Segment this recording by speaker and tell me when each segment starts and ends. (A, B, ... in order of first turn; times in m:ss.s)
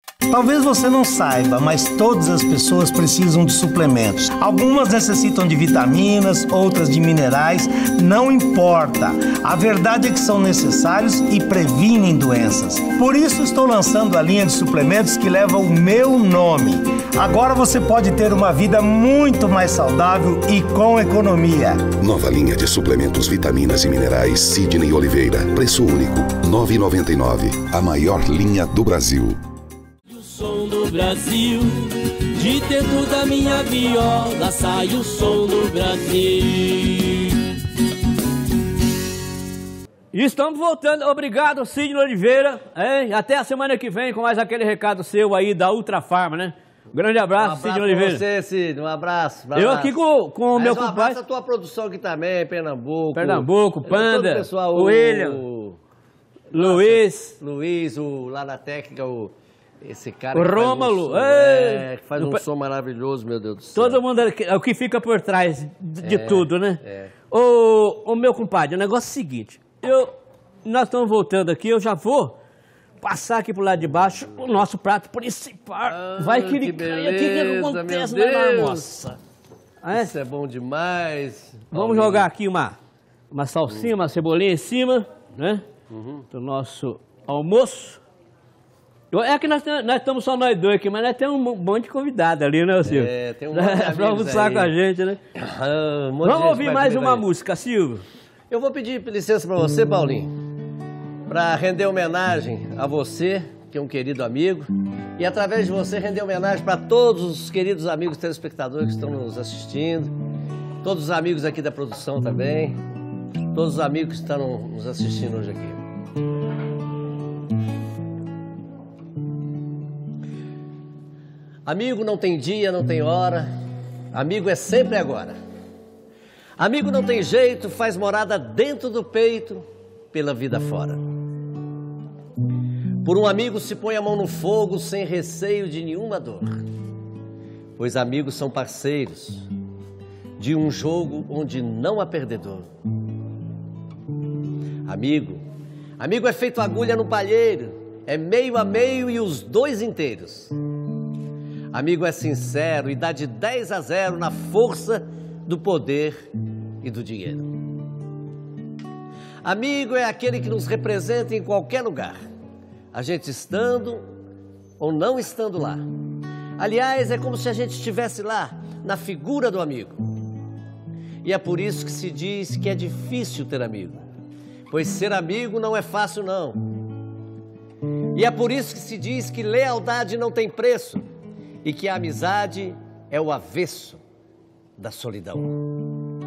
0:00.3-0:22.0 A
0:21.9-0:29.4 B
0:30.1-0:37.4 C
0:40.1-0:48.2 D
0:47.4-0:49.9 E
0:49.5-0:51.2 D
0:50.5-0:55.8 E
0:53.1-0:55.4 D
0:56.5-1:04.0 E
0:56.5-0:57.3 D
1:00.3-1:02.4 D
1:03.7-1:10.1 D
1:06.0-1:07.1 E
1:10.6-1:12.3 D
1:13.0-1:19.1 D
1:15.9-1:19.2 E
1:19.8-1:20.1 D
1:19.9-1:22.3 E
1:21.7-1:22.8 D
1:23.3-1:25.6 D
1:25.9-1:26.2 E
1:26.3-1:28.0 D
1:29.1-1:35.2 D
1:32.8-1:34.7 E
1:35.3-1:37.2 E
1:36.2-1:38.0 D
1:38.5-1:40.3 E
1:41.3-1:50.1 E
1:50.8-1:52.8 E
1:53.5-1:55.8 E
2:01.6-2:03.5 E
2:04.1-2:05.4 E
2:06.6-2:11.0 E
2:13.0-2:16.6 E
2:17.8-2:19.5 E
2:20.4-2:22.7 E
2:24.8-2:25.4 E
2:26.0-2:30.6 E
2:31.7-2:36.3 E
2:36.8-2:37.5 E
2:39.4-2:42.2 E
2:42.9-2:44.0 E
2:44.8-2:45.8 E
2:46.6-2:50.1 E
2:51.2-2:54.0 E
2:54.7-2:56.7 E
2:58.1-3:01.0 E
3:01.6-3:04.0 E
3:04.8-3:05.7 E